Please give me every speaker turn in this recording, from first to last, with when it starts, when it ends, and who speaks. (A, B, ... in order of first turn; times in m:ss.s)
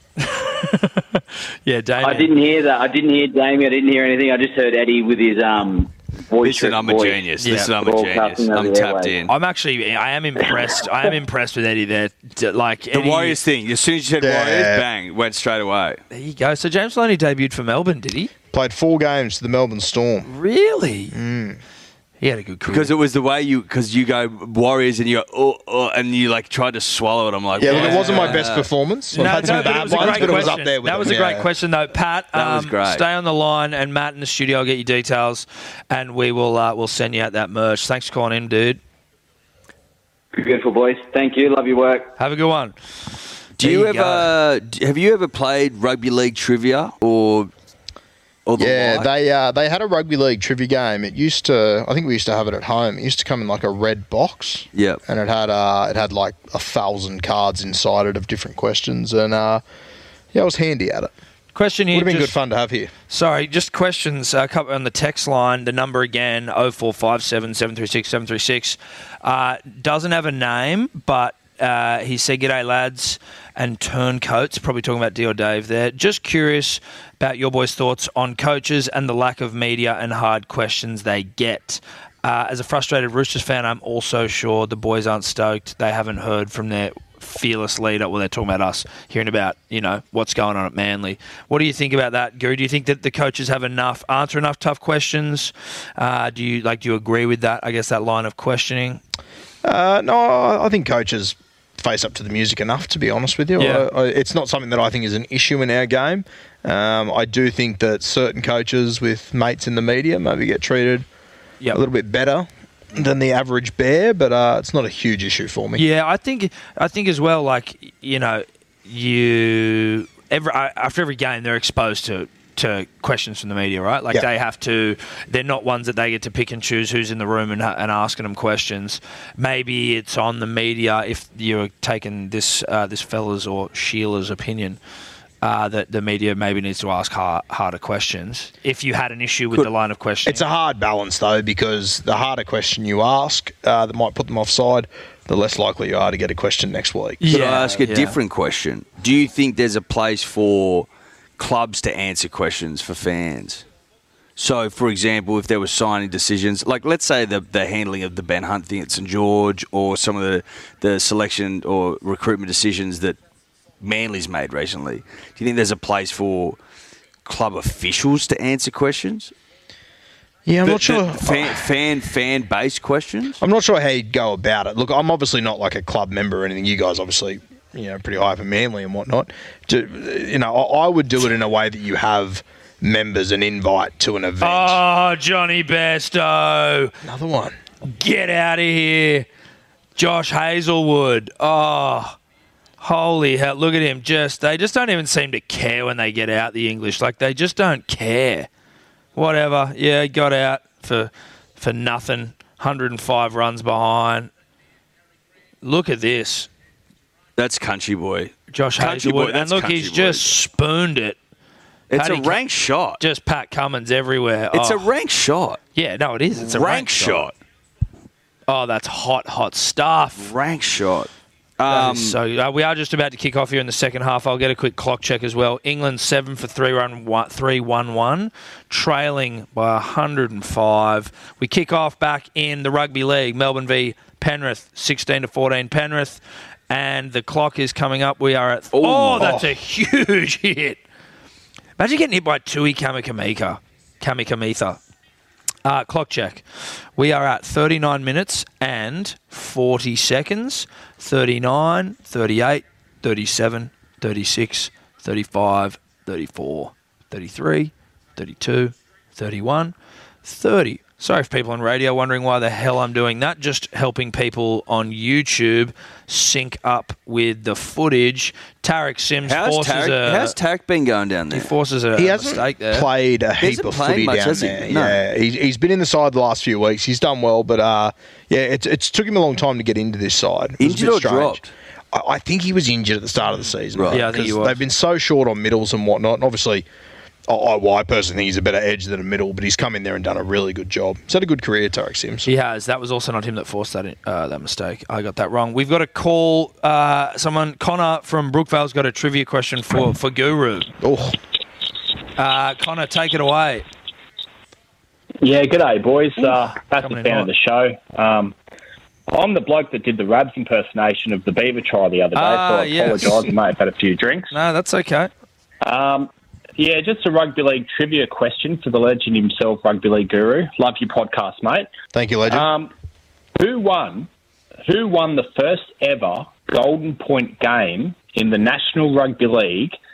0:00.2-0:02.3 A
0:02.0-0:09.2 B
0:06.4-0:09.3 C
0:07.4-0:07.7 A
0:09.3-0:13.4 A
0:12.9-0:16.0 C
0:14.2-0:14.9 D
0:16.1-0:18.3 A
0:18.5-0:20.3 D
0:20.3-0:21.1 A
0:21.1-0:21.6 D
0:22.2-0:22.9 A
0:22.7-0:28.7 C
0:27.6-0:31.5 D
0:27.6-0:28.5 A
0:29.1-0:38.8 A
0:29.2-0:30.5 C
0:32.3-0:33.0 C
0:40.4-0:42.1 B
0:42.2-0:42.8 A
0:43.6-0:47.5 C
0:43.6-0:44.3 A
0:48.5-0:49.1 C
0:48.6-0:59.6 D
0:54.8-0:55.0 C
1:00.3-1:01.1 D
1:01.6-1:02.4 A
1:01.9-1:02.9 D
1:03.1-1:39.0 A
1:39.6-1:51.1 D
1:43.6-1:43.9 A
1:51.7-1:55.8 D
1:55.8-2:14.8 A
2:15.4-2:20.4 A
2:20.2-2:27.4 D
2:27.2-2:28.2 A
2:27.3-2:30.9 C
2:31.4-2:33.6 C
2:34.4-2:43.2 C
2:43.8-2:46.6 C
2:47.2-2:49.3 C
2:50.5-2:51.6 D
2:50.6-2:53.4 C
2:53.4-3:04.8 D
3:04.4-3:07.0 A
3:07.0-3:07.6 D
3:07.8-3:09.3 A
3:10.0-3:12.2 A
3:12.8-3:18.5 A
3:19.2-3:24.3 A
3:25.6-3:26.5 A
3:27.4-3:30.4 C
3:28.5-3:31.2 A
3:31.9-3:33.0 C
3:31.9-3:32.4 A
3:33.0-3:34.8 A
3:34.5-3:35.6 C
3:35.8-3:37.3 A
3:36.4-3:37.3 C
3:38.5-3:40.3 A
3:40.2-3:42.2 C
3:41.7-4:00.8 A
3:58.7-3:59.4 C
3:59.2-3:59.5 D
4:01.8-4:04.8 A
4:05.6-4:06.4 A
4:07.0-4:30.4 A
4:29.3-4:31.5 C
4:31.3-4:32.9 A
4:32.0-4:41.4 D
4:33.4-4:35.0 C
4:40.6-4:41.5 C
4:41.9-4:46.7 D
4:43.7-4:44.0 C
4:43.9-4:44.6 A
4:47.3-4:52.3 D
4:52.2-5:00.7 A
5:00.8-5:01.2 D
5:02.2-5:03.6 A
5:05.2-5:08.4 E
5:06.8-5:07.3 A
5:09.1-5:14.3 E
5:12.2-5:13.2 A
5:14.3-5:15.1 A
5:15.6-5:21.7 E
5:21.9-5:22.5 D
5:22.3-5:22.7 E
5:23.4-5:24.1 E
5:24.7-5:29.8 E